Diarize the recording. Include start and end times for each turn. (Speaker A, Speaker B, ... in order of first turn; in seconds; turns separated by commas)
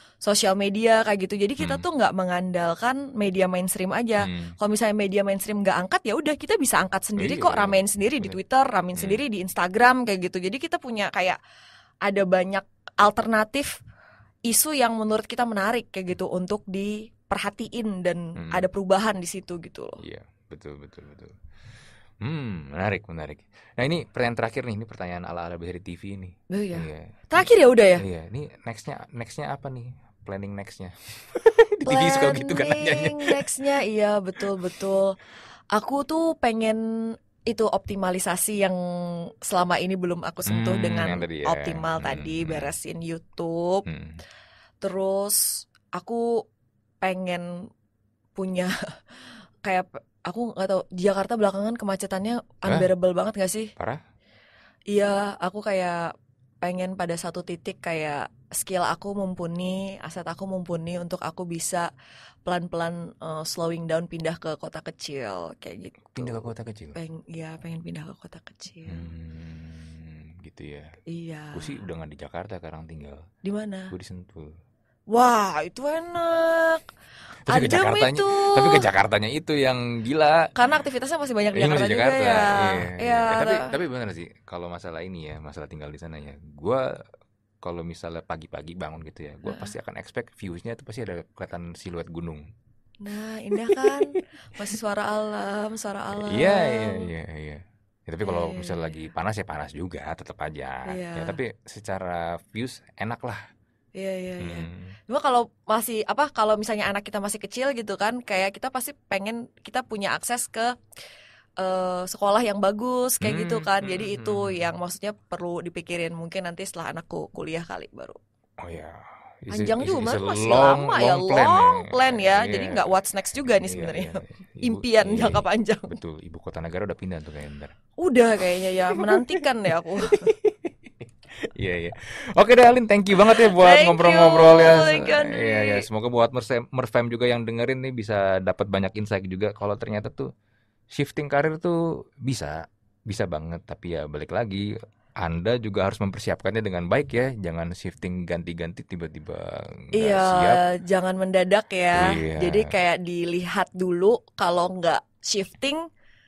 Speaker A: 0.2-11.4, Speaker B: 1.6-1.8, Speaker B: 4.2-4.5, Speaker B: 7.2-8.4, Speaker B: 8.9-9.2, Speaker A: 12.0-13.8, Speaker A: 14.5-20.0, Speaker B: 18.4-18.7, Speaker B: 20.0-21.4, Speaker B: 22.2-33.6, Speaker A: 26.5-28.0, Speaker A: 31.8-35.1, Speaker A: 35.7-36.8, Speaker A: 37.5-43.8, Speaker B: 40.5-42.7, Speaker B: 43.9-44.2, Speaker A: 44.8-46.4, Speaker A: 47.0-47.7, Speaker A: 48.4-53.7, Speaker B: 53.8-54.0, Speaker A: 54.9-61.9, Speaker A: 62.4-69.1, Speaker B: 66.1-67.0, Speaker B: 68.9-71.0, Speaker A: 71.1-71.8, Speaker B: 71.5-73.3, Speaker A: 73.4-73.9, Speaker B: 73.9-74.6, Speaker A: 75.1-76.8, Speaker B: 77.5-80.5, Speaker A: 77.5-78.9, Speaker A: 80.5-83.7, Speaker B: 81.5-86.9, Speaker B: 87.6-92.5, Speaker A: 89.4-89.7, Speaker A: 93.0-97.1, Speaker B: 93.6-94.2, Speaker B: 96.1-103.4, Speaker A: 98.2-99.0, Speaker A: 100.9-101.4, Speaker A: 103.9-110.8, Speaker B: 104.4-105.0, Speaker A: 111.6-118.2, Speaker B: 113.2-114.7, Speaker B: 118.6-122.8, Speaker A: 119.5-126.0, Speaker B: 123.6-127.7, Speaker A: 128.0-130.3, Speaker B: 129.0-129.4, Speaker B: 130.0-140.3, Speaker A: 133.2-135.8, Speaker B: 140.9-142.6, Speaker B: 143.1-144.7, Speaker B: 145.2-150.6, Speaker A: 149.9-155.8, Speaker B: 152.0-152.7